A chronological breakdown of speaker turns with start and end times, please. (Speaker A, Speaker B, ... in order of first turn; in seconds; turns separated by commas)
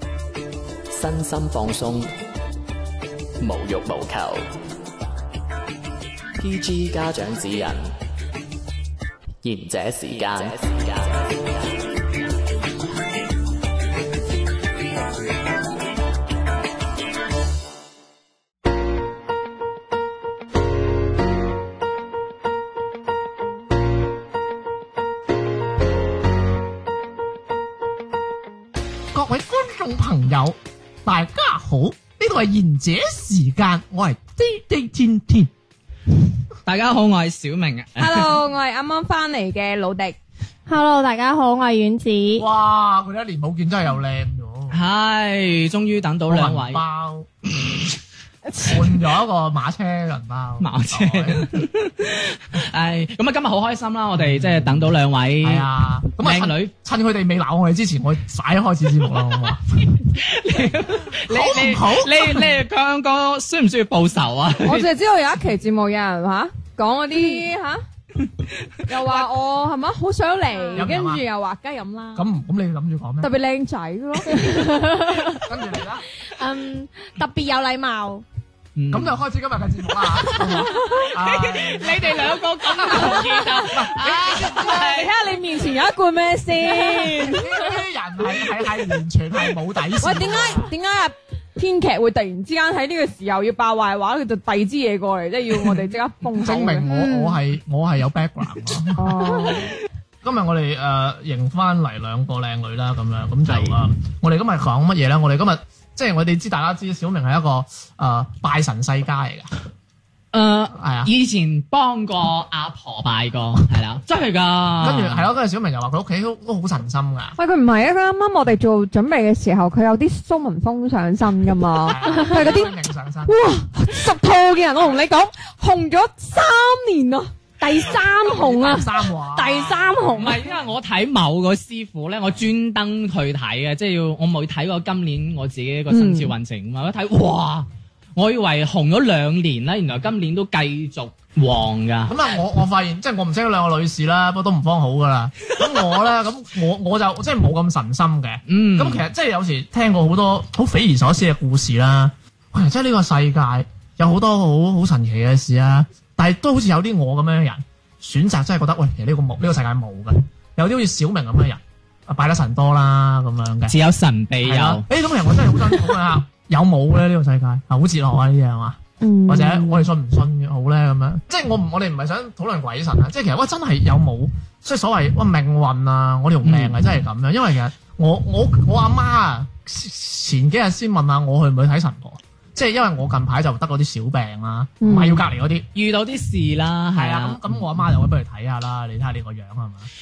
Speaker A: 0.9-2.1, Speaker A: 3.4-4.5, Speaker A: 6.4-7.9, Speaker A: 9.4-11.5, Speaker B: 29.1-35.5, Speaker C: 36.6-38.3, Speaker D: 38.0-40.2, Speaker E: 40.7-42.5, Speaker B: 42.4-44.8, Speaker C: 44.7-46.8, Speaker B: 46.3-47.8, Speaker B: 48.6-51.6, Speaker C: 50.6-56.7, Speaker B: 54.2-54.9, Speaker B: 55.4-59.9, Speaker C: 59.9-64.9, Speaker B: 61.2-62.5, Speaker D: 64.6-67.8, Speaker D: 68.8-72.3, Speaker E: 70.5-70.8, Speaker B: 70.8-71.2, Speaker B: 72.2-73.3, Speaker D: 73.2-74.5, Speaker E: 74.3-75.5, Speaker B: 75.3-76.0, Speaker E: 76.2-78.2, Speaker C: 78.8-79.2, Speaker B: 78.9-84.8, Speaker C: 80.4-85.1, Speaker E: 80.5-81.0, Speaker D: 84.0-87.5, Speaker E: 86.7-87.3, Speaker B: 87.3-90.7, Speaker D: 90.0-96.9, Speaker B: 96.3-99.7, Speaker E: 96.9-97.4, Speaker D: 99.0-99.7, Speaker B: 100.2-109.5, Speaker C: 103.5-103.8, Speaker C: 110.3-115.3, Speaker B: 110.7-111.1, Speaker B: 114.8-117.3, Speaker D: 117.4-122.7, Speaker B: 121.8-123.4, Speaker D: 123.2-127.3, Speaker E: 127.6-130.4, Speaker B: 127.7-130.3, Speaker C: 130.2-142.2, Speaker D: 135.9-136.3, Speaker B: 142.1-163.8, Speaker C: 148.5-149.1, Speaker C: 163.7-164.8, Speaker B: 164.4-185.7, Speaker D: 169.0-169.9, Speaker C: 176.4-176.8, Speaker D: 184.8-185.2, Speaker C: 185.7-187.5, Speaker B: 186.9-189.9